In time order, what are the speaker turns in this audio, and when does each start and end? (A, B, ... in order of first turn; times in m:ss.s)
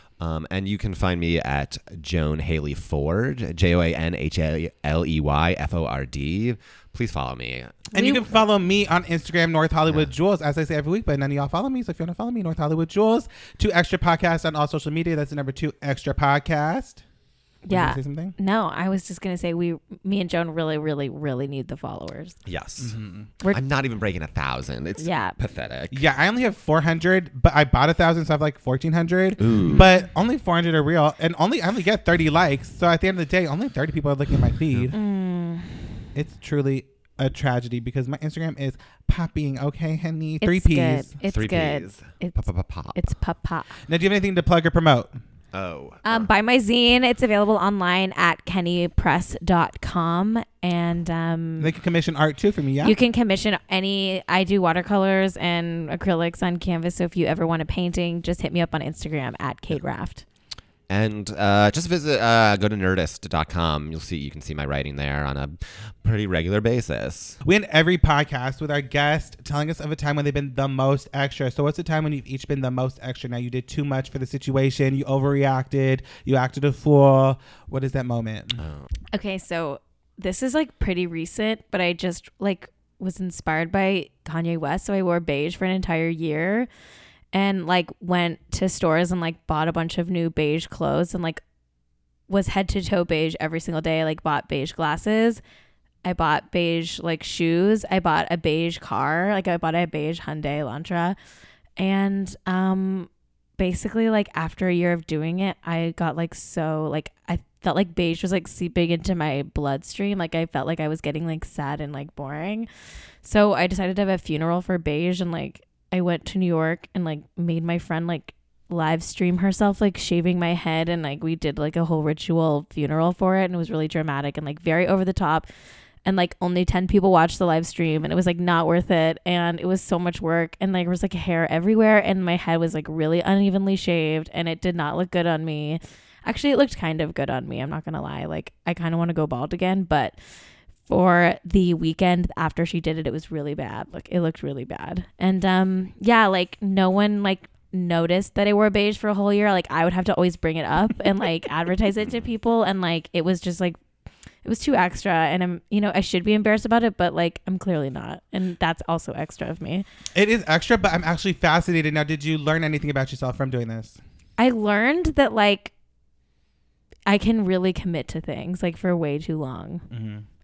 0:00.2-0:07.9 A
0:07.9-0:08.2 B
0:07.9-0:17.0 C
0:17.6-0:22.4 B
0:17.7-0:18.3 C
0:22.4-0:22.9 A
0:22.8-0:23.3 C
0:23.5-0:26.0 A
0:25.0-0:25.4 B
0:25.9-0:35.0 C
0:29.4-0:29.9 A
0:34.9-0:35.8 B
0:36.1-0:41.1 C
0:40.4-0:43.8 B
0:41.2-0:43.1 A
0:43.9-0:45.2 C
0:45.5-0:46.3 A
0:46.0-0:51.7 B
0:51.6-0:53.0 C
0:52.8-1:00.2 B
1:00.9-1:07.4 A
1:07.4-1:18.6 C
1:18.6-1:18.9 A
1:19.1-1:26.7 B
1:27.3-1:31.4 B
1:32.3-1:35.4 B
1:36.0-1:41.2 B
1:41.8-1:52.7 B
1:53.2-2:05.4 B
2:06.0-2:20.2 B
2:20.9-2:33.8 B
2:34.4-2:39.8 B
2:40.1-2:44.0 C
2:44.4-2:45.7 B
2:47.1-2:49.8 B
2:49.9-2:50.2 C